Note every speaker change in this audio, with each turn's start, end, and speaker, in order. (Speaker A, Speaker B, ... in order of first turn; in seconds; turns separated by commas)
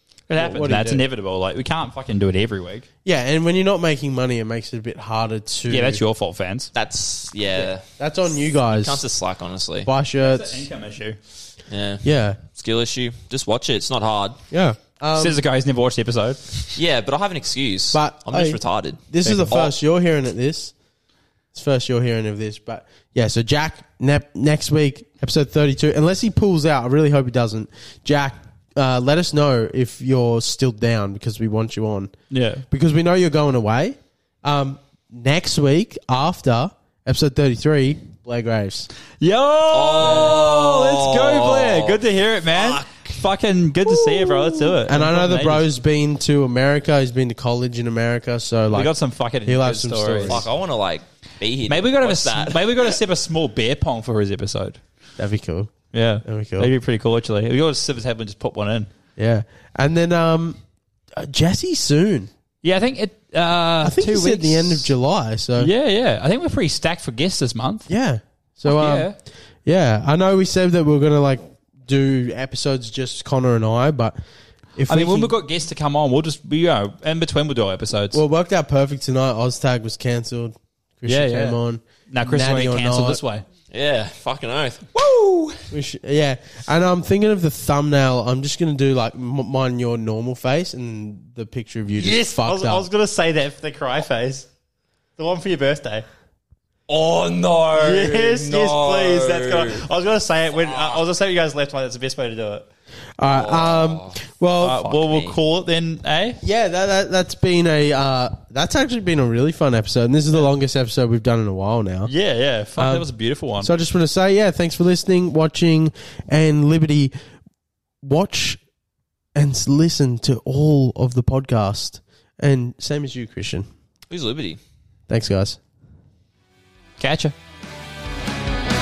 Speaker A: 0.3-2.9, Speaker B: 0.4-1.0, Speaker B: 3.0-6.0, Speaker A: 5.7-6.7, Speaker C: 6.7-7.8, Speaker B: 7.5-9.0, Speaker C: 8.7-9.9, Speaker B: 9.8-10.6, Speaker A: 10.2-11.2, Speaker C: 11.7-14.4, Speaker B: 12.0-12.4, Speaker B: 14.5-15.4, Speaker A: 15.2-16.8, Speaker C: 16.8-19.7, Speaker B: 17.9-20.7, Speaker A: 19.2-19.5, Speaker B: 21.5-32.1, Speaker A: 32.3-32.6, Speaker B: 32.7-38.9, Speaker A: 39.2-45.7, Speaker C: 39.7-43.1, Speaker B: 40.0-40.4, Speaker B: 44.8-50.5, Speaker A: 48.7-50.5, Speaker C: 50.2-53.0, Speaker A: 51.7-54.8, Speaker B: 55.2-55.7, Speaker A: 55.9-58.9, Speaker B: 56.2-56.7, Speaker B: 59.2-60.6, Speaker B: 61.1-62.3, Speaker A: 62.6-64.9, Speaker B: 63.8-65.7, Speaker A: 65.6-67.9, Speaker B: 67.9-74.2, Speaker A: 68.7-69.2, Speaker B: 74.8-75.3, Speaker A: 74.9-78.2, Speaker B: 78.1-83.2, Speaker A: 81.0-83.5, Speaker C: 83.7-84.9, Speaker A: 85.0-85.7, Speaker B: 85.7-92.9, Speaker A: 92.0-94.5, Speaker A: 95.2-96.1, Speaker C: 96.9-99.9, Speaker A: 97.8-102.7, Speaker C: 100.5-101.0, Speaker B: 103.2-104.8, Speaker C: 103.3-104.2, Speaker A: 104.6-106.4, Speaker C: 104.8-105.4, Speaker B: 106.4-112.1, Speaker A: 112.1-113.7, Speaker B: 112.8-117.1, Speaker B: 118.0-118.6, Speaker B: 119.3-123.7, Speaker C: 124.1-124.6, Speaker B: 125.1-125.6, Speaker A: 127.0-127.3